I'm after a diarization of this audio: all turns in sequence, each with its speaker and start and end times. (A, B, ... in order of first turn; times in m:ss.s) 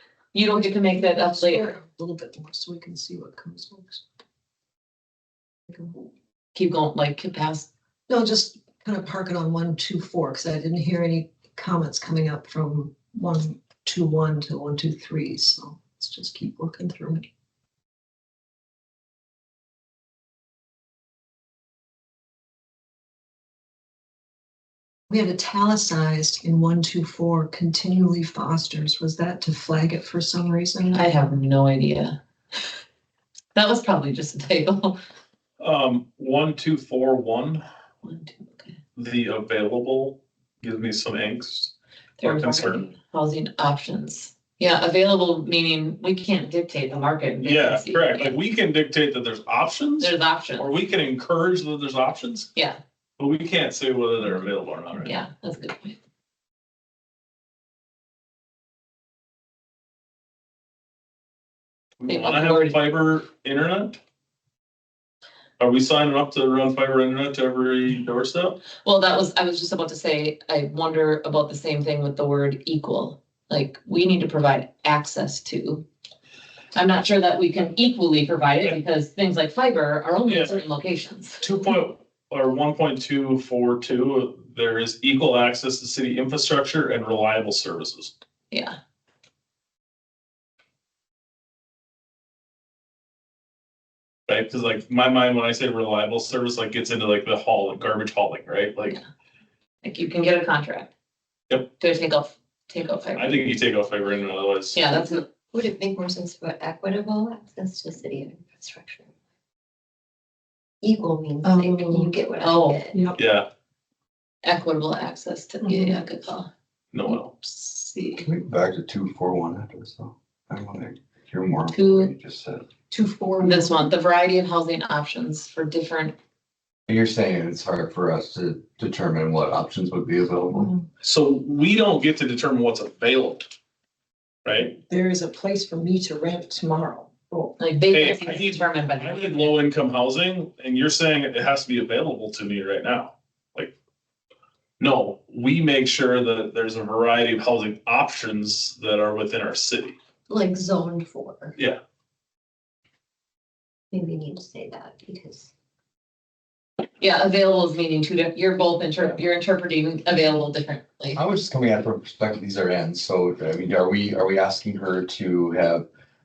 0:00.3-0:01.7 A
0:00.9-0:04.0 B
0:06.5-0:07.7 A
0:08.1-0:17.3 B
0:25.1-0:31.4 B
0:30.9-0:32.2 A
0:33.5-0:35.0 A
0:35.6-0:37.6 C
0:38.0-0:38.8 A
0:38.9-0:42.8 C
0:42.2-0:48.4 A
0:47.4-0:52.5 C
0:50.0-0:50.7 A
0:53.2-0:55.1 C
0:55.0-0:56.0 A
1:02.0-1:04.0 C
1:02.1-1:02.8 A
1:05.6-1:08.6 C
1:08.8-1:15.8 A
1:16.7-1:21.5 A
1:20.2-1:20.6 C
1:21.4-1:28.1 C
1:28.5-1:28.8 A
1:34.3-1:39.0 C
1:39.8-1:40.9 A
1:41.8-1:43.4 A
1:43.2-1:44.8 C
1:44.7-1:45.2 A
1:45.5-1:49.1 D
1:50.8-1:53.0 D
1:51.4-1:52.2 B
1:52.4-1:52.8 A
1:52.9-1:53.2 B
1:53.2-1:53.5 C
1:54.4-1:56.5 A
1:55.6-1:56.0 B
1:56.9-1:57.3 C
1:57.1-1:58.3 A
1:58.1-2:02.7 E
2:01.7-2:02.1 A
2:02.9-2:03.8 B
2:03.4-2:06.1 A
2:06.9-2:10.7 E
2:10.5-2:10.8 B
2:11.0-2:13.5 C
2:14.4-2:14.8 C
2:14.9-2:17.6 B
2:17.6-2:19.5 A
2:17.9-2:23.7 C
2:24.8-2:30.0 C
2:30.3-2:31.6 D
2:33.9-2:35.5 D
2:37.0-2:41.2 A
2:41.1-2:45.8 E